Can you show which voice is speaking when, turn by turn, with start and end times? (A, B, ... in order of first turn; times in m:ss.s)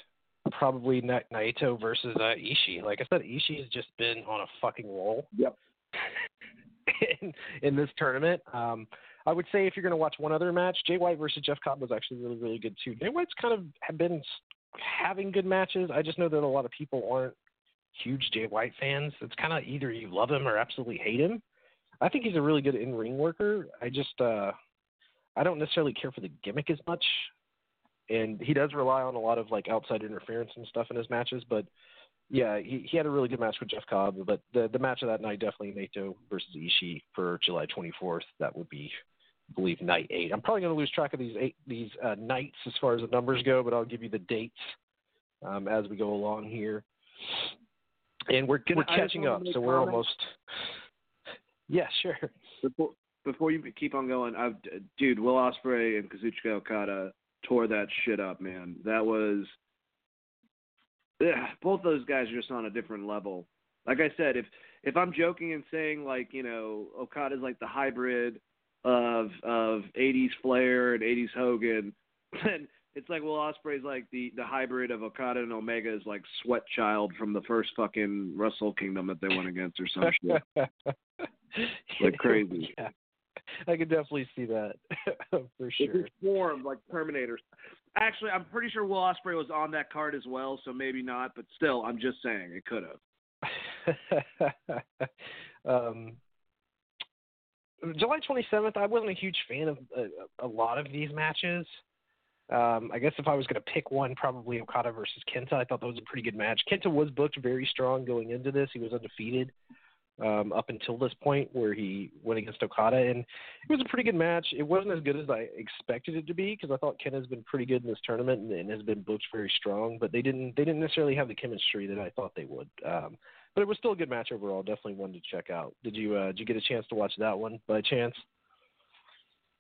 0:00.5-0:05.3 A
0:06.9-0:17.4 A
0:17.9-0:21.4 A
0:22.0-0:24.6 A
0:25.4-0:27.3 A
0:28.1-0:31.7 A
0:32.3-0:38.9 A
0:39.5-0:44.7 A
0:45.4-0:47.5 A
0:48.3-0:50.4 A
0:48.7-0:50.0 B
0:51.7-0:52.3 A
0:52.6-0:59.6 B
1:01.2-1:20.4 B
1:20.3-1:20.9 A
1:21.5-1:22.9 A
1:22.0-1:22.7 B
1:23.6-1:26.1 A
1:25.8-1:27.4 B
1:27.9-1:33.0 B
1:33.4-1:35.1 A
1:35.6-1:36.2 A
1:37.8-1:41.7 A
1:42.5-1:49.5 A
1:50.2-2:08.2 A